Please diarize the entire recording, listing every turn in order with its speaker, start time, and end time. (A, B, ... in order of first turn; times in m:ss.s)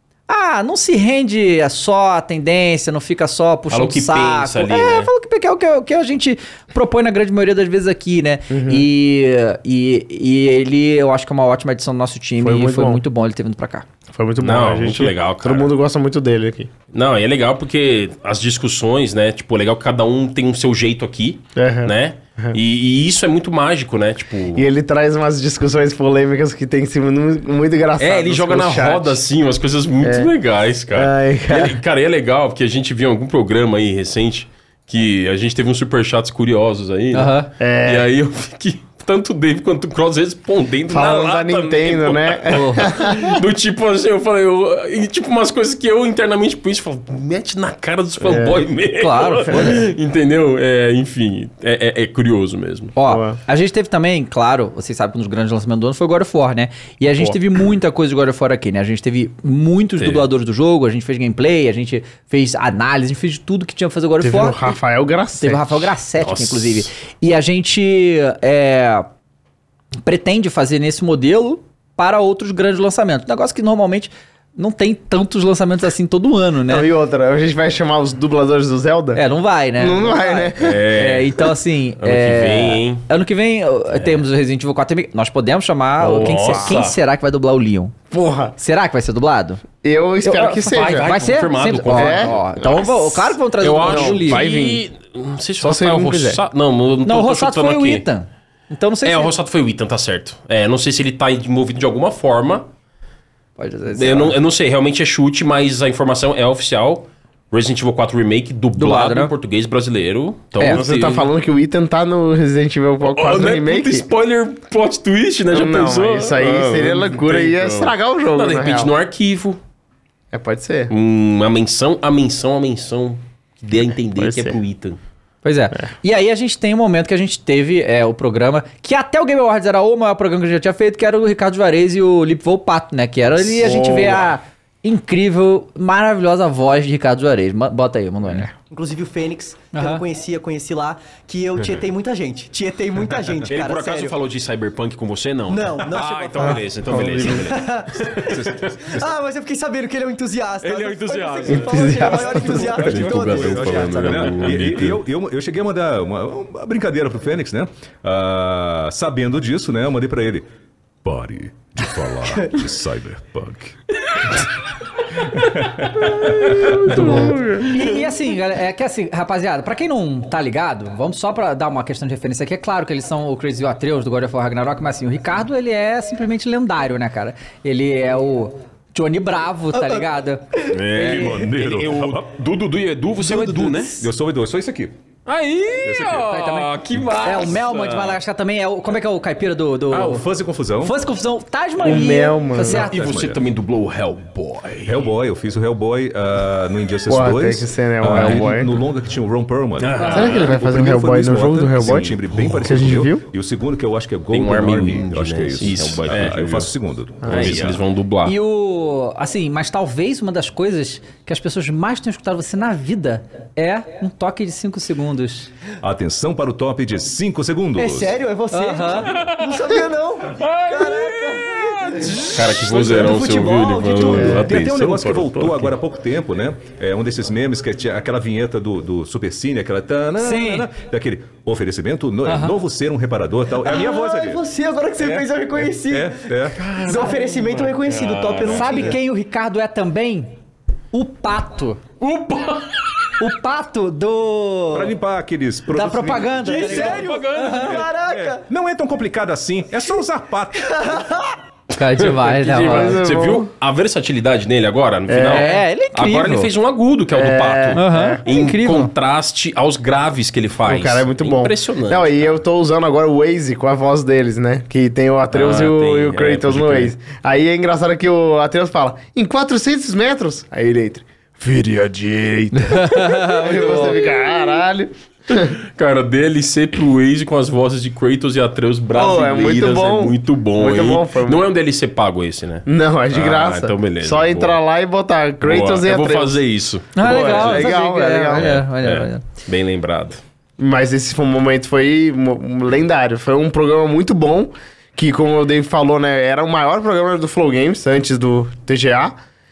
0:00.3-0:13.9 A
0:03.7-0:05.1 B
0:08.5-0:08.8 C
0:12.4-0:13.0 C
0:14.1-0:16.7 C
0:14.4-0:15.7 B
0:16.9-0:24.6 B
0:21.6-0:22.6 C
0:24.5-0:29.2 C
0:28.0-0:52.9 B
0:30.0-0:30.3 C
0:30.9-0:31.8 C
0:37.1-0:37.5 A
0:37.6-0:38.1 C
0:40.9-0:43.4 C
0:42.5-0:42.9 A
0:48.2-0:48.6 C
0:49.0-0:49.9 A
0:53.0-1:04.7 A
0:53.0-0:53.4 C
1:00.0-1:00.2 B
1:04.2-1:05.9 C
1:05.4-1:09.1 A
1:06.2-1:06.9 B
1:10.0-1:16.9 A
1:16.7-1:19.2 C
1:19.1-1:27.9 A
1:19.8-1:20.8 C
1:20.6-1:21.5 B
1:22.0-1:23.0 B
1:26.0-1:27.0 B
1:26.4-1:26.7 C
1:28.1-1:28.6 C
1:28.6-1:29.6 A
1:29.8-1:31.1 C
1:30.2-1:34.5 A
1:30.7-1:32.9 B
1:31.9-1:32.9 C
1:33.6-1:38.0 B
1:33.8-1:34.8 C
1:35.6-1:36.4 C
1:37.0-1:39.3 A
1:39.0-1:42.7 B
1:43.6-1:44.4 A
1:43.9-1:51.3 B
1:48.8-1:49.3 A
1:50.6-1:50.8 A
1:50.6-1:54.0 C
1:53.0-1:59.6 B
1:55.5-1:58.9 C
2:00.3-2:00.9 C
2:00.9-2:05.0 B
2:04.2-2:04.6 C
2:05.4-2:18.5 A
2:13.7-2:14.1 C
2:13.7-2:14.1 B
2:18.7-2:24.2 D
2:19.7-2:20.0 A
2:23.4-2:28.8 B
2:25.5-2:26.6 D
2:26.5-2:27.5 C
2:27.2-2:28.0 D
2:28.3-2:29.0 E
2:28.9-2:34.6 D
2:30.6-2:35.0 B
2:31.5-2:32.6 C
2:32.6-2:40.4 E
2:41.0-2:43.7 E
2:46.8-3:00.4 A
2:59.7-3:00.0 D
3:00.7-3:03.9 B
3:00.9-3:02.3 E
3:01.2-3:01.5 D
3:03.2-3:03.9 D
3:04.0-3:04.9 E
3:05.2-3:08.2 B
3:05.8-3:06.2 E
3:06.1-3:10.2 A
3:09.9-3:10.9 E
3:10.8-3:13.1 A
3:11.8-3:12.8 C
3:12.6-3:15.0 B
3:12.9-3:13.4 E
3:14.8-3:27.9 E
3:17.1-3:18.7 C
3:19.8-3:20.6 B
3:20.0-3:20.3 A
3:20.1-3:23.2 C
3:24.3-3:26.7 B
3:27.2-3:27.6 C
3:27.2-3:28.3 B
3:28.2-3:35.5 A
3:35.8-3:38.2 E
3:37.7-3:44.5 D
3:38.5-3:39.1 A
3:40.4-3:41.3 B
3:42.2-3:45.7 B
3:44.1-3:54.4 E
3:44.1-3:44.5 A
3:50.2-3:50.7 A
3:52.2-3:52.6 A
3:53.6-3:59.0 D
3:55.0-3:56.7 E
3:56.6-3:58.9 B
3:56.9-3:57.2 A
3:58.5-4:00.3 A
4:00.9-4:01.8 A
4:02.0-4:02.8 B
4:03.2-4:05.0 A
4:04.7-4:07.0 E
4:05.7-4:07.8 A
4:06.4-4:08.5 D
4:06.5-4:07.9 B
4:07.8-4:11.0 E
4:10.6-4:11.2 D
4:11.7-4:13.0 A
4:11.9-4:22.3 B
4:12.6-4:13.5 C
4:15.1-4:15.5 C
4:15.3-4:16.5 A
4:17.1-4:18.2 C
4:17.7-4:18.9 A
4:20.6-4:35.5 C
4:25.3-4:26.9 B
4:32.6-4:34.0 A
4:33.6-4:33.9 B
4:35.4-4:44.6 B
4:38.9-4:41.4 C
4:42.6-4:46.4 C
4:45.4-4:47.7 B
4:46.9-4:49.2 A
4:47.0-4:48.6 C
4:48.3-4:50.2 B
4:50.6-4:59.2 C